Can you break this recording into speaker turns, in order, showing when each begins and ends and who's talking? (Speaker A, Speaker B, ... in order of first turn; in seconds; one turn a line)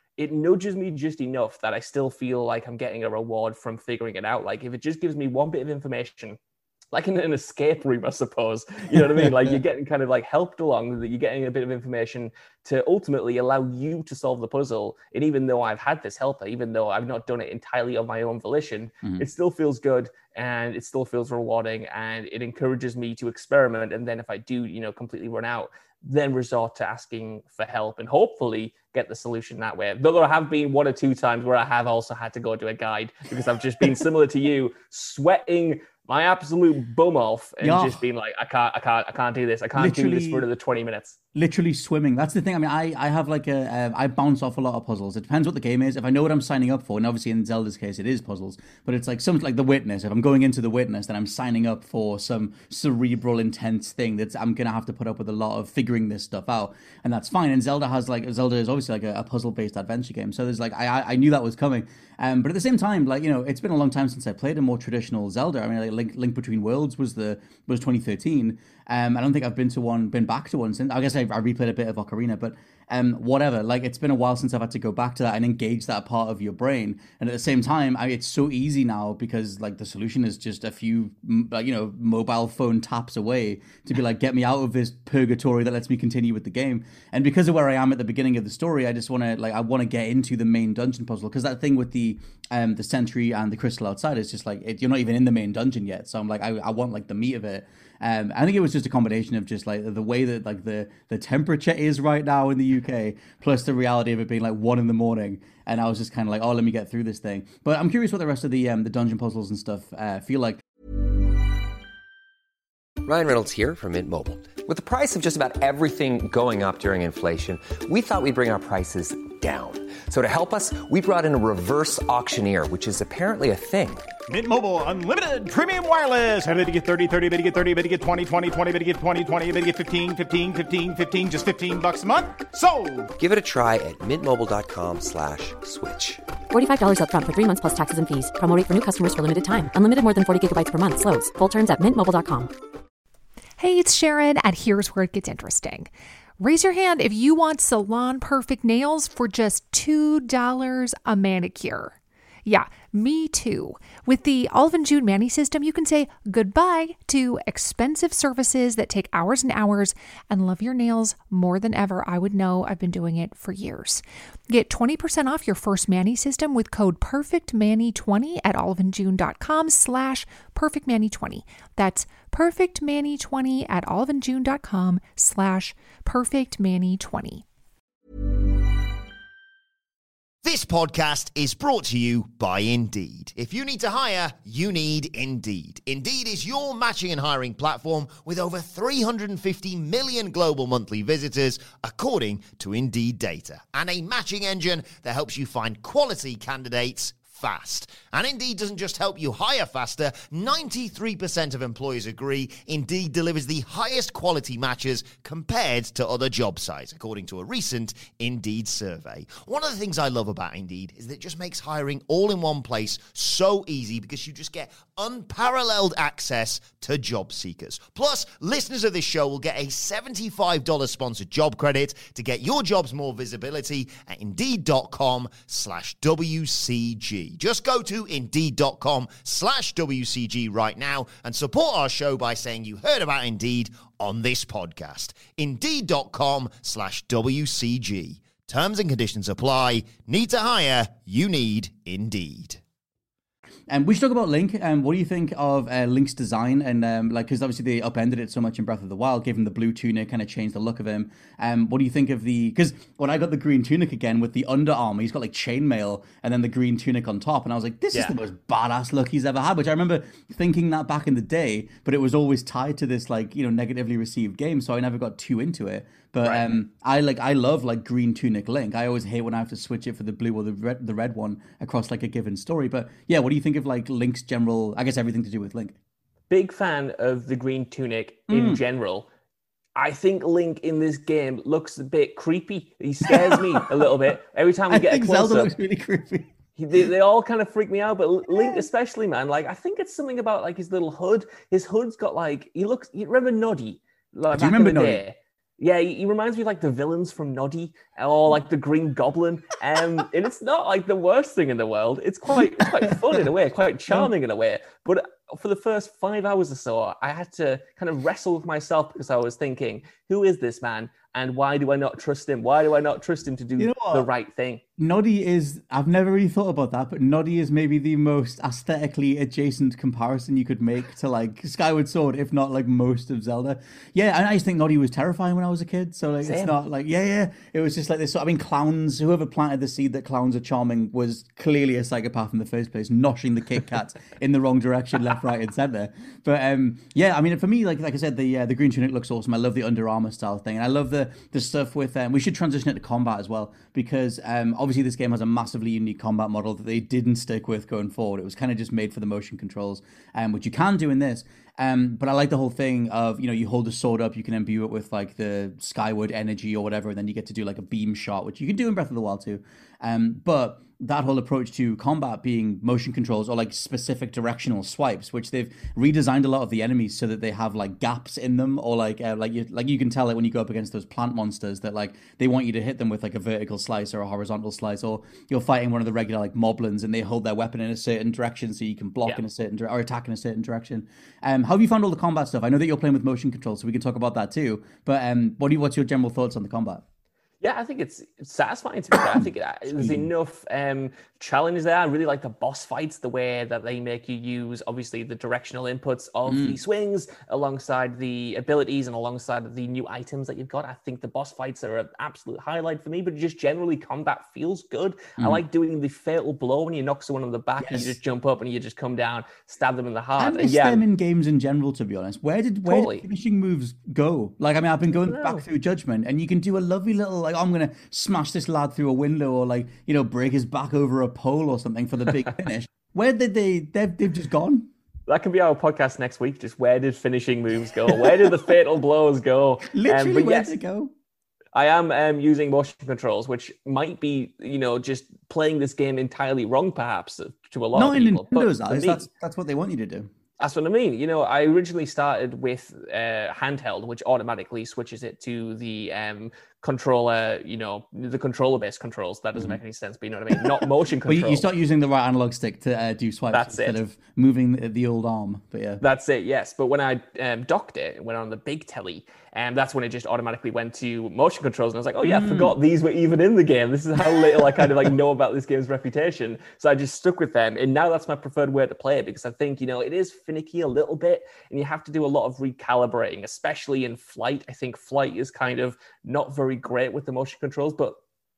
Speaker A: 0.2-6.4
Speaker A: 6.9-41.2
Speaker B: 8.9-9.6
Speaker B: 37.6-38.0
Speaker B: 39.7-40.5
Speaker B: 41.4-110.6
Speaker C: 113.0-124.1
Speaker D: 124.3-133.1
Speaker C: 133.2-136.2
Speaker E: 136.5-142.5
Speaker F: 143.6-177.4
Speaker G: 180.4-242.6
Speaker B: 243.7-275.8
Speaker A: 266.2-266.5
Speaker A: 276.3-279.1
Speaker B: 278.3-278.6
Speaker A: 279.8-285.5
Speaker B: 283.1-283.9
Speaker B: 284.7-286.8
Speaker A: 286.6-314.6
Speaker B: 288.3-288.6
Speaker B: 294.3-295.0
Speaker B: 313.6-314.1
Speaker B: 314.8-386.8
Speaker A: 326.2-326.6
Speaker A: 387.4-410.8
Speaker B: 389.8-390.1
Speaker B: 396.3-396.6
Speaker B: 407.6-408.0
Speaker B: 410.2-424.7
Speaker A: 412.6-413.1
Speaker A: 415.0-415.4
Speaker A: 425.1-430.6
Speaker B: 427.9-428.2
Speaker B: 429.6-430.9
Speaker A: 431.6-439.1
Speaker B: 437.7-440.1
Speaker A: 440.4-451.5
Speaker B: 451.1-455.8
Speaker A: 453.3-453.8
Speaker A: 455.8-478.0
Speaker B: 462.0-462.6